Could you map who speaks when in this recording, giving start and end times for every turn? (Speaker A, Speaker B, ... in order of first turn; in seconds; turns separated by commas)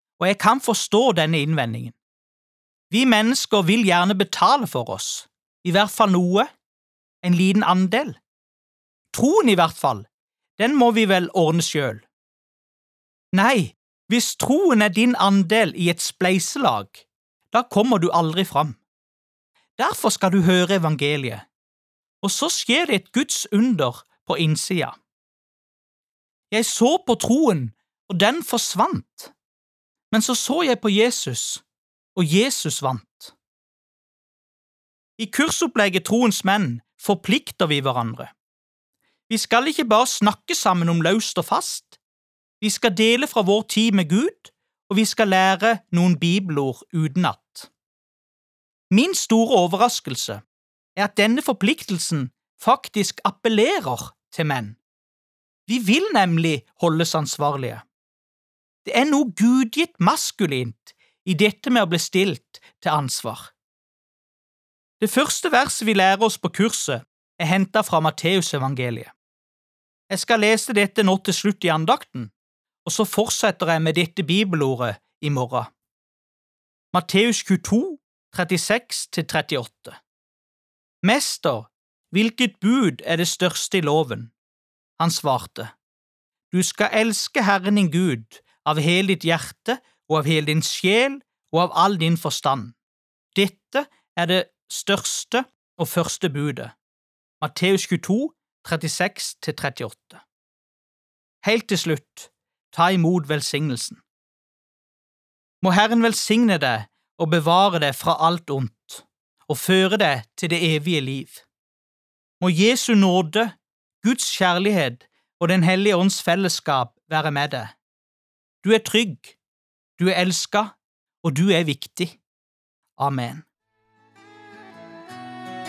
Speaker A: 0.2-2.0, Speaker A: 2.9-6.5, Speaker A: 7.2-8.2, Speaker A: 9.1-10.1, Speaker A: 10.6-12.1, Speaker A: 13.3-18.8, Speaker A: 19.8-21.4, Speaker A: 22.2-25.0, Speaker A: 26.5-29.3, Speaker A: 30.1-31.6, Speaker A: 32.1-33.3, Speaker A: 35.2-38.3, Speaker A: 39.3-42.0, Speaker A: 42.6-47.7, Speaker A: 48.9-50.4, Speaker A: 51.0-54.8, Speaker A: 55.7-57.8, Speaker A: 58.8-63.5, Speaker A: 65.0-69.1, Speaker A: 70.1-72.3, Speaker A: 72.8-75.7, Speaker A: 76.9-80.0, Speaker A: 81.0-84.3, Speaker A: 85.0-85.7, Speaker A: 86.5-92.7, Speaker A: 93.3-96.7, Speaker A: 97.4-100.2, Speaker A: 101.4-104.0, Speaker A: 105.6-111.4, Speaker A: 112.4-117.7, Speaker A: 118.6-119.4, Speaker A: 120.0-122.2, Speaker A: 123.0-123.4